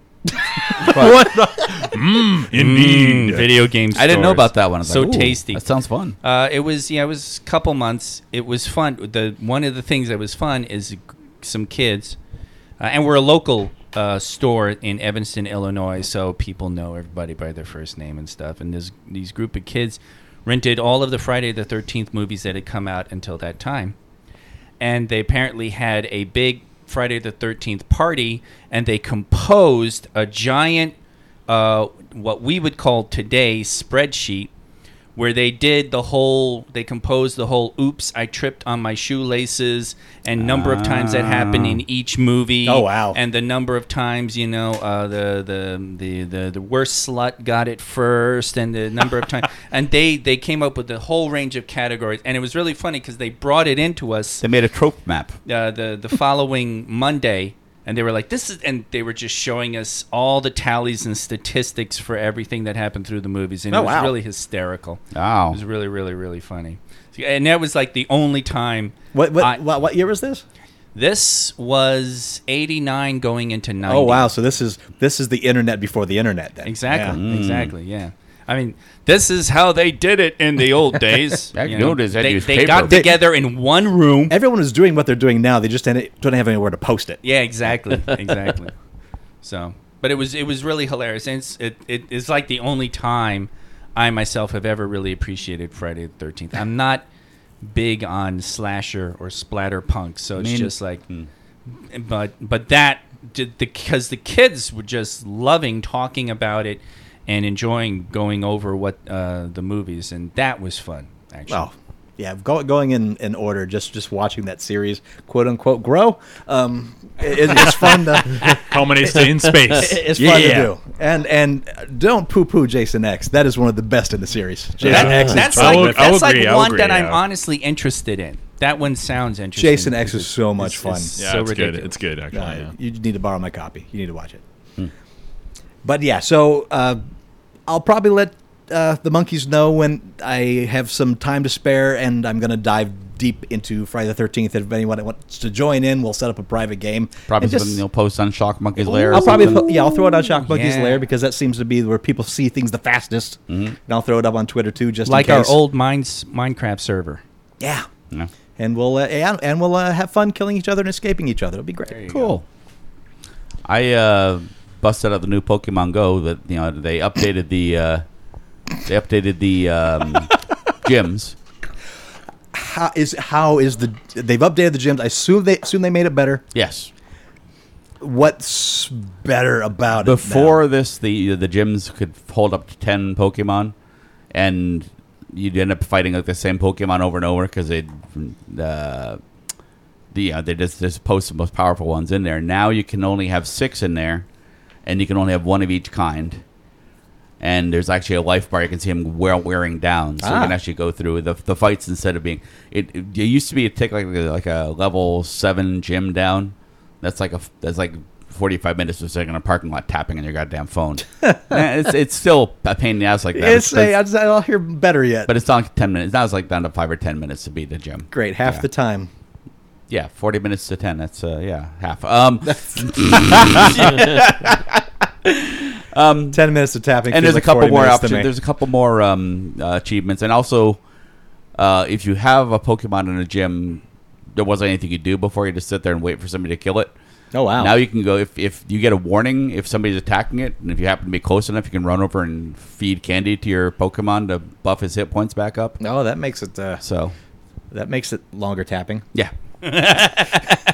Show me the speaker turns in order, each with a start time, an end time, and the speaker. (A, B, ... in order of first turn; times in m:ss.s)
0:00.8-0:03.5 A
0:00.8-0:01.3 B
0:02.5-0:05.6 B
0:03.9-0:06.2 C
0:06.2-0:12.2 B
0:12.8-0:24.0 B
0:24.8-0:31.0 B
0:31.5-0:34.5 B
0:35.2-0:54.4 B
0:40.4-0:41.8 C
0:42.6-0:43.2 D
0:54.4-0:55.4 C
0:55.5-1:09.6 B
1:03.7-1:04.2 D
1:05.1-1:05.6 C
1:09.1-1:10.4 D
1:10.9-1:14.3 B
1:13.9-1:17.2 D
1:16.6-1:24.4 B
1:17.0-1:17.7 C
1:21.5-1:23.0 C
1:22.9-1:23.2 D
1:24.3-1:27.2 D
1:27.2-1:28.7 B
1:29.4-1:37.0 B
1:37.6-1:41.0 B
1:40.4-1:41.3 C
1:41.8-1:51.7 B
1:51.5-1:58.6 D
1:58.3-2:00.7 A
1:59.7-2:06.1 D
2:04.8-2:07.2 A
2:04.8-2:12.0 B
2:09.6-2:11.1 D
2:11.2-2:12.7 A
2:12.3-2:14.4 D
2:15.8-2:17.0 D
2:17.7-2:27.8 D
2:27.3-2:29.6 C
2:28.8-2:35.6 D
2:30.3-2:31.0 B
2:33.5-2:33.8 C
2:35.1-2:37.2 B
2:37.6-2:37.9 D
2:38.6-2:42.4 D
2:42.1-2:42.4 C
2:43.7-2:48.0 C
2:48.8-2:51.4 C
2:52.5-2:56.4 D
2:56.5-2:56.9 C
2:58.0-3:00.6 D
3:00.0-3:03.8 C
3:04.3-3:09.2 C
3:10.1-3:14.3 C
3:14.9-3:16.4 C
3:17.4-3:33.9 C
3:20.2-3:20.6 D
3:31.2-3:31.7 D
3:33.3-3:35.3 D
3:35.3-3:38.6 C
3:38.1-3:39.1 D
3:39.9-3:46.4 C
3:46.3-3:48.3 D
3:47.1-3:50.8 C
3:51.6-3:53.8 C
3:54.3-3:56.9 C
3:57.3-3:57.8 D
3:57.6-4:05.8 C
4:05.8-4:06.8 D
4:06.8-4:07.1 C
4:07.7-4:09.1 D
4:09.6-4:10.4 B